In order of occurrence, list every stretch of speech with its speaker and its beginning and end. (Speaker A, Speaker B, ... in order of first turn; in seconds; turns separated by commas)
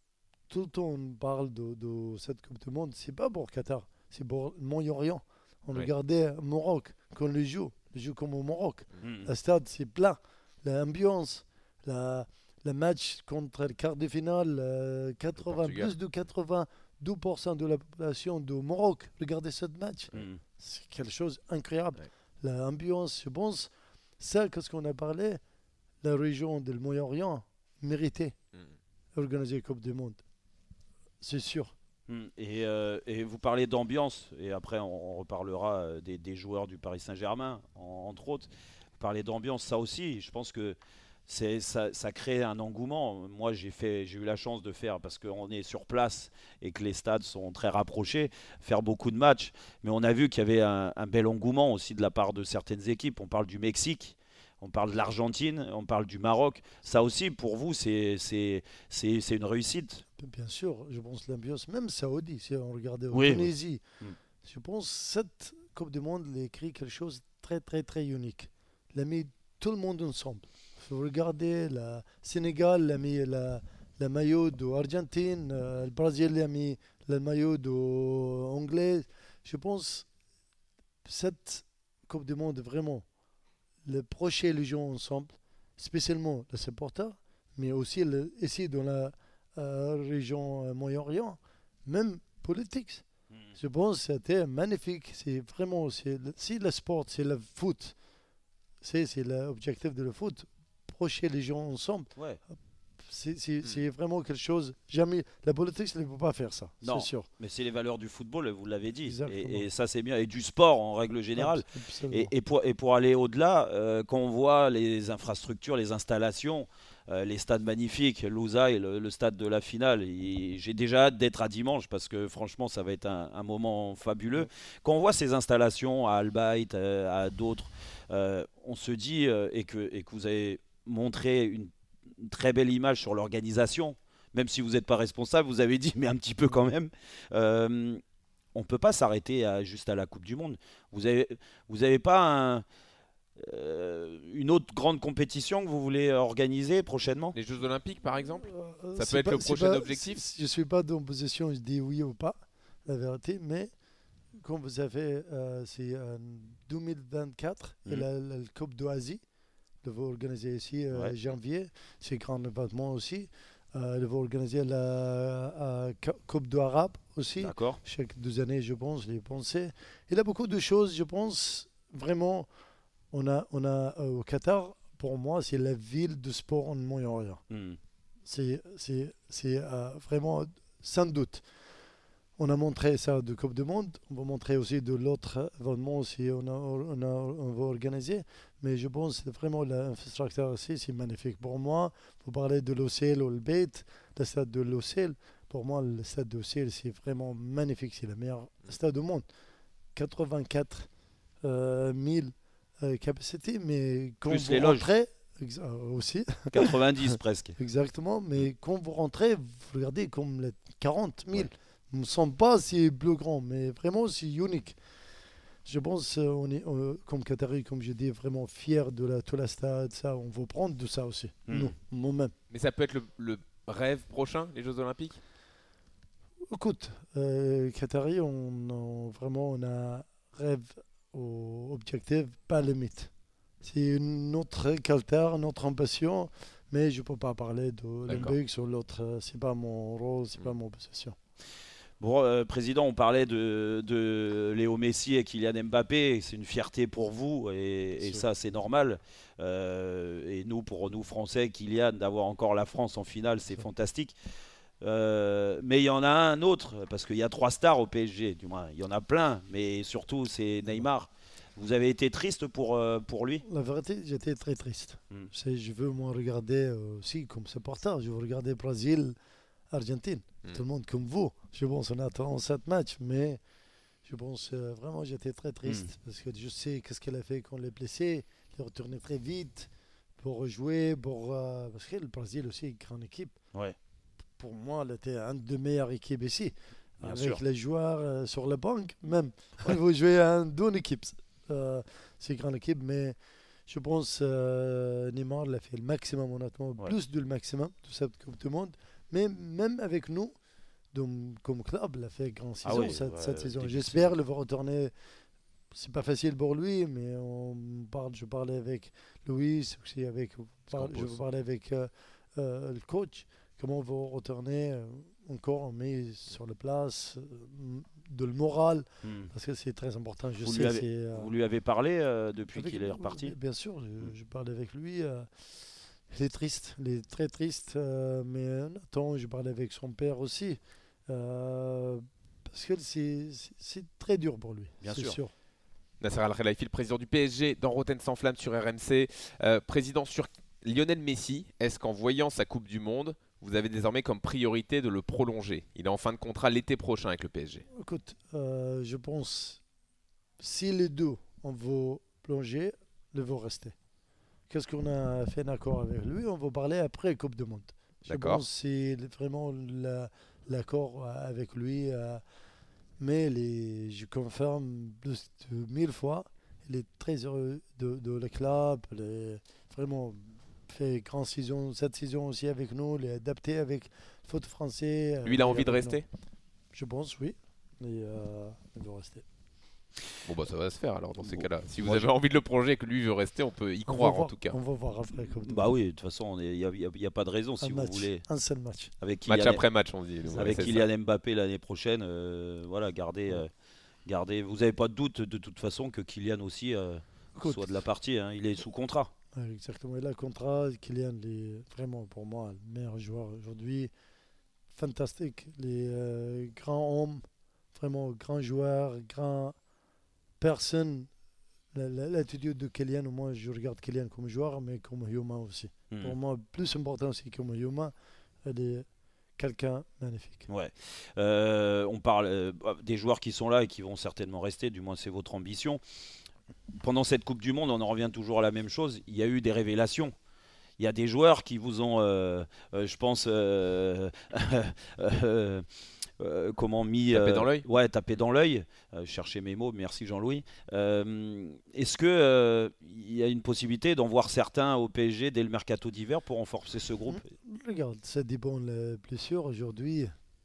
Speaker A: 0.5-25.4, Speaker B: 9.0-9.3, Speaker C: 15.4-15.9, Speaker B: 20.1-20.4, Speaker A: 26.0-28.4, Speaker A: 29.1-30.2, Speaker A: 31.2-31.7, Speaker B: 32.1-60.0, Speaker A: 60.2-63.8, Speaker B: 63.1-64.2, Speaker A: 64.4-80.1, Speaker A: 81.0-83.0, Speaker A: 83.8-93.0, Speaker A: 93.6-98.0, Speaker A: 98.8-102.1, Speaker B: 102.2-102.4, Speaker A: 103.0-107.3, Speaker B: 106.8-138.0, Speaker A: 109.1-109.7, Speaker A: 111.4-112.3, Speaker B: 138.6-142.6, Speaker B: 143.4-147.4, Speaker C: 147.3-150.2, Speaker A: 148.2-153.7, Speaker A: 154.3-159.2, Speaker A: 159.8-172.5, Speaker B: 167.4-167.8, Speaker A: 173.1-177.4, Speaker B: 177.5-177.8, Speaker A: 178.2-181.4, Speaker A: 182.4-199.2, Speaker A: 199.9-200.9, Speaker A: 201.4-214.8, Speaker B: 204.2-204.9, Speaker B: 206.5-207.6, Speaker A: 215.6-222.3, Speaker B: 221.5-221.7, Speaker C: 222.5-225.2, Speaker A: 226.5-233.1, Speaker A: 233.6-241.2, Speaker C: 238.1-238.3, Speaker B: 242.0-254.1, Speaker A: 248.0-248.2, Speaker B: 254.8-263.4, Speaker A: 263.5-269.2, Speaker A: 269.7-273.4, Speaker A: 274.1-283.4, Speaker A: 284.4-300.3, Speaker B: 287.0-287.4, Speaker A: 300.9-304.9, Speaker B: 302.6-304.2, Speaker A: 305.7-321.3, Speaker C: 310.7-311.2, Speaker B: 319.0-319.3, Speaker B: 320.4-323.4, Speaker A: 322.6-335.3, Speaker B: 334.8-335.2, Speaker C: 336.0-347.6, Speaker A: 347.7-349.6, Speaker A: 350.4-353.8, Speaker A: 354.5-362.2, Speaker C: 358.1-358.4, Speaker A: 363.0-376.0, Speaker C: 375.2-376.1, Speaker A: 376.7-379.2, Speaker C: 380.2-384.6, Speaker B: 381.2-382.1, Speaker A: 383.9-385.7, Speaker B: 385.4-388.2, Speaker A: 387.6-388.9, Speaker B: 389.0-389.6, Speaker C: 389.3-390.9, Speaker B: 390.3-393.5, Speaker B: 394.1-399.1, Speaker A: 397.4-397.8, Speaker A: 399.4-403.9, Speaker A: 404.7-409.6, Speaker A: 410.4-411.1, Speaker A: 411.7-417.9, Speaker B: 415.9-416.2, Speaker A: 418.4-418.9, Speaker A: 419.4-420.5, Speaker B: 420.5-425.8, Speaker B: 426.7-430.1, Speaker B: 430.8-447.2, Speaker C: 437.1-437.7, Speaker A: 447.1-450.1